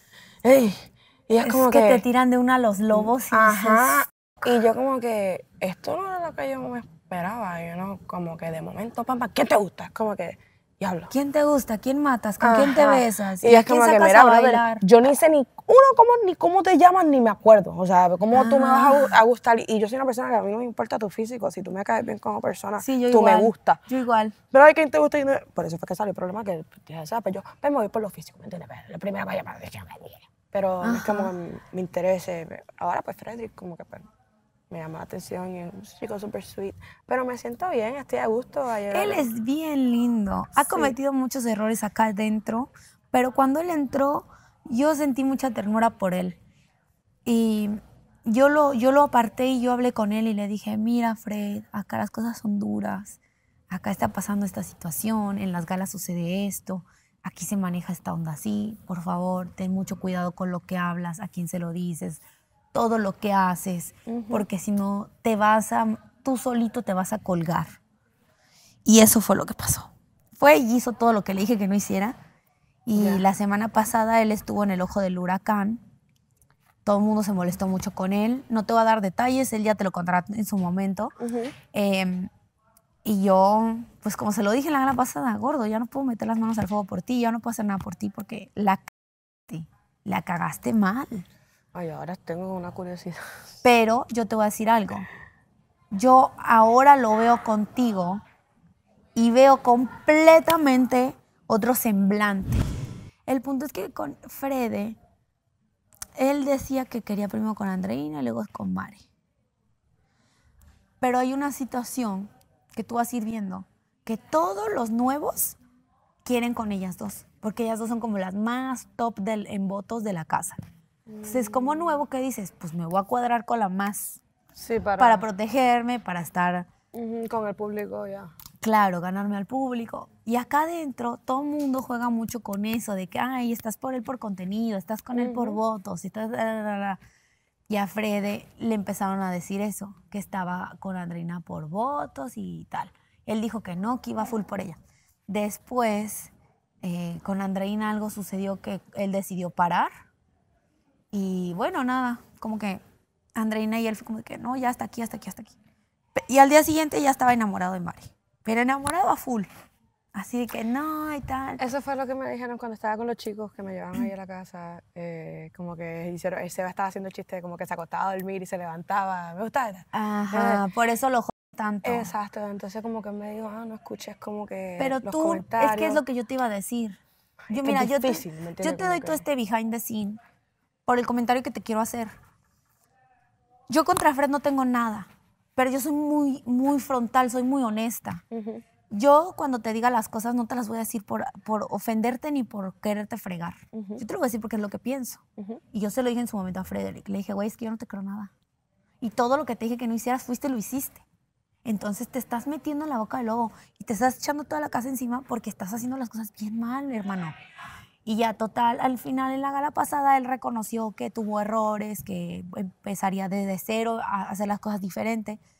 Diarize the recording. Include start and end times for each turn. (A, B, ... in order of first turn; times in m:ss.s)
0:00.4-0:02.0 A
0:01.4-0:04.0 B
0:02.9-0:11.1 A
0:11.1-0:14.8 B
0:12.4-0:23.8 A
0:18.3-0:19.1 B
0:22.8-0:24.4 B
0:24.5-0:34.0 A
0:30.8-0:31.3 B
0:34.7-0:39.3 A
0:38.9-0:46.4 B
0:40.6-0:40.9 A
0:47.2-0:53.2 B
0:53.7-1:02.2 B
1:02.7-1:07.7 B
1:04.1-1:04.5 A
1:08.8-1:12.2 B
1:12.8-1:15.8 B
1:12.9-1:13.2 A
1:16.8-1:21.1 B
1:21.2-1:21.5 A
1:21.7-1:22.3 B
1:23.0-1:28.9 B
1:29.5-1:31.2 B
1:31.7-1:33.2 A
1:33.6-1:35.1 B
1:35.9-1:38.2 B
1:39.1-1:42.6 B
1:43.2-1:45.0 B
1:46.2-1:49.0 B
1:51.0-1:55.6 B
1:56.2-2:00.6 B
2:01.1-2:02.0 A
2:01.2-2:04.2 B
2:04.6-2:05.2 A
2:05.0-2:06.7 B
2:06.9-2:08.3 A
2:08.6-2:17.0 B
2:15.1-2:15.6 A
2:17.7-2:29.9 B
2:31.1-2:32.8 B
2:33.4-2:35.6 B
2:36.2-2:39.5 B
2:40.1-2:41.6 B
2:41.6-2:50.6 A
2:49.9-2:52.1 B
2:51.8-2:56.0 A
2:54.8-2:57.0 B
2:57.5-3:00.2 B
2:57.5-2:59.2 A
3:00.8-3:02.1 B
3:03.7-3:08.2 B
3:08.3-3:08.6 A
3:08.9-3:15.2 B
3:13.7-3:14.0 A
3:15.7-3:18.3 B
3:19.0-3:21.0 B
3:21.6-3:27.3 B
3:28.0-3:35.4 B